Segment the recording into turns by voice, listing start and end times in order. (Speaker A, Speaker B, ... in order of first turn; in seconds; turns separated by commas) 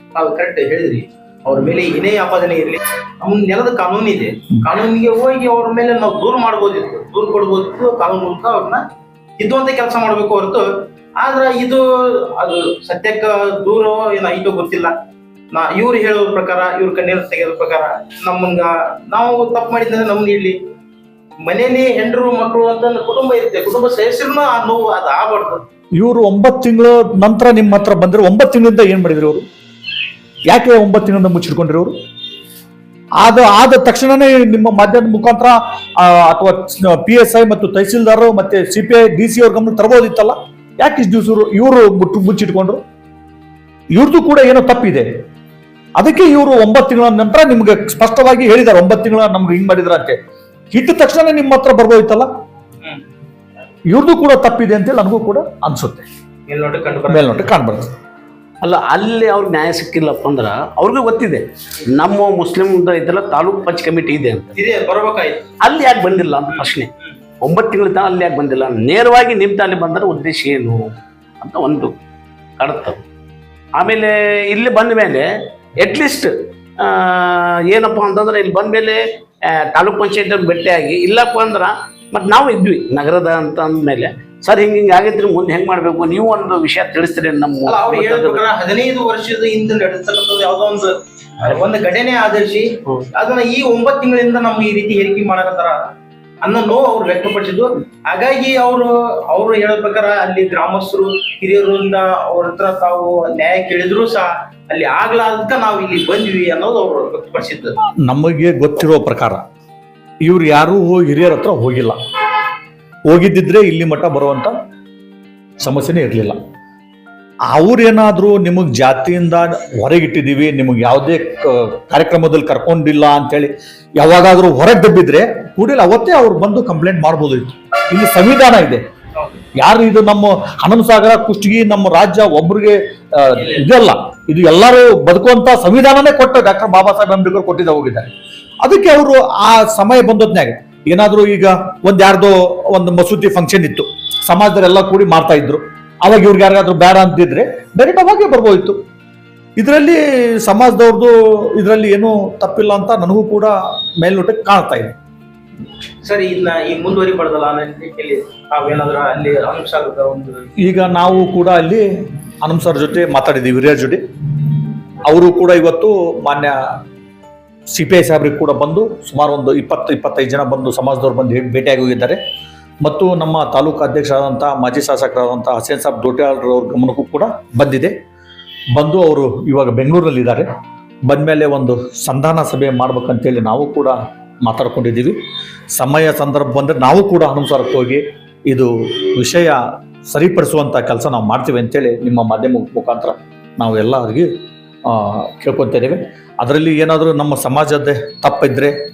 Speaker A: 0.1-8.8, Speaker A: 9.4-14.9, Speaker A: 15.5-20.6, Speaker A: 21.4-25.6, Speaker B: 26.0-29.4, Speaker B: 30.5-31.9, Speaker B: 33.2-42.8, Speaker B: 43.9-45.1, Speaker B: 46.0-50.2, Speaker B: 50.7-52.3, Speaker B: 53.9-56.0, Speaker A: 56.5-57.5, Speaker B: 57.1-57.9, Speaker C: 58.6-64.5, Speaker A: 64.5-65.5, Speaker C: 65.6-66.9, Speaker C: 67.4-70.8, Speaker C: 71.4-71.9, Speaker C: 72.6-73.0, Speaker C: 73.8-75.3, Speaker C: 75.8-88.4, Speaker A: 87.7-95.8, Speaker A: 96.4-107.8, Speaker B: 108.0-109.4, Speaker B: 110.2-112.0, Speaker B: 113.1-114.5, Speaker B: 115.6-116.4, Speaker B: 117.5-128.8, Speaker B: 129.6-138.1, Speaker A: 133.3-133.7, Speaker B: 138.6-148.8, Speaker B: 149.6-154.9, Speaker A: 156.0-160.5, Speaker B: 160.6-164.5, Speaker B: 165.1-166.6, Speaker B: 167.7-172.2, Speaker B: 172.8-177.9, Speaker B: 178.7-180.5, Speaker B: 181.1-185.2, Speaker B: 185.7-194.3, Speaker B: 194.8-198.7